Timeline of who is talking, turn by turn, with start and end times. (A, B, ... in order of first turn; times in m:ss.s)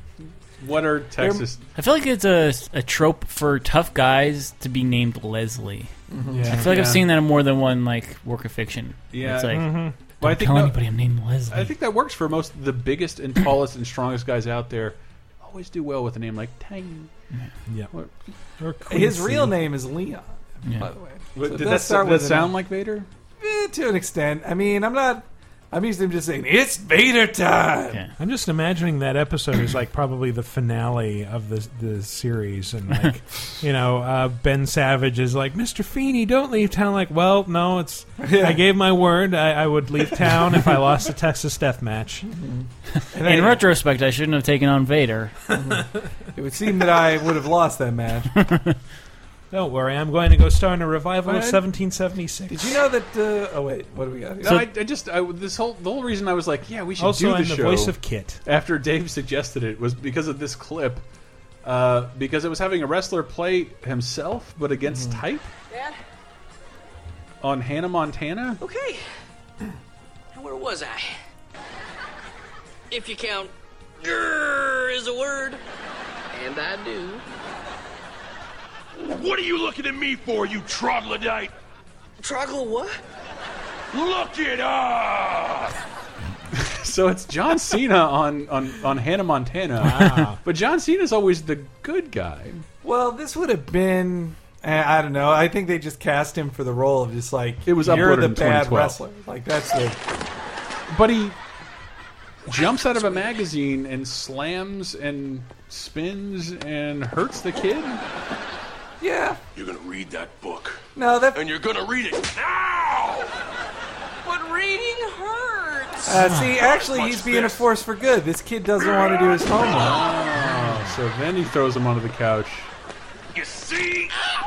0:00.6-0:01.6 A
0:01.2-0:01.4 B
0:01.8-0:05.9 C
0:06.1-0:06.5 B
0:06.3-0:07.0 A
0:06.5-0:11.7 C
0:09.1-0:10.8 A
0:09.5-0:09.9 D
0:11.5-0:17.1 A
0:18.6-0:19.5 D
0:18.8-0:22.5 B
0:20.6-0:20.9 C
0:21.3-0:23.1 A
0:23.4-0:28.0 B
0:28.2-0:42.3 D
0:38.2-0:38.6 B
0:42.3-0:43.6 B
0:43.2-0:45.3 C
0:45.5-0:48.5 B
0:49.5-0:52.8 D
0:51.2-0:51.6 A
0:52.5-0:54.6 B
0:54.4-1:01.0 A
0:57.0-0:58.4 D
1:01.6-1:05.5 A
1:04.9-1:05.2 B
1:05.7-1:06.0 E
1:07.4-1:08.6 A
1:08.6-1:09.0 E
1:10.3-1:11.1 E
1:12.9-1:15.6 E
1:16.3-1:17.2 E
1:22.2-1:23.0 E
1:26.5-1:32.6 A
1:29.8-1:30.4 D
1:32.8-1:40.0 B
1:37.6-1:39.0 A
1:40.9-1:41.4 A
1:42.4-1:48.0 A
1:49.0-1:49.4 B
1:49.6-1:50.7 F
1:50.9-1:51.4 B
1:51.5-1:53.2 F
1:54.2-1:56.2 E
1:56.0-2:00.0 B
1:56.2-1:56.6 D
1:56.8-1:57.1 F
1:59.7-2:02.7 A
2:00.5-2:00.9 D
2:03.4-2:04.0 F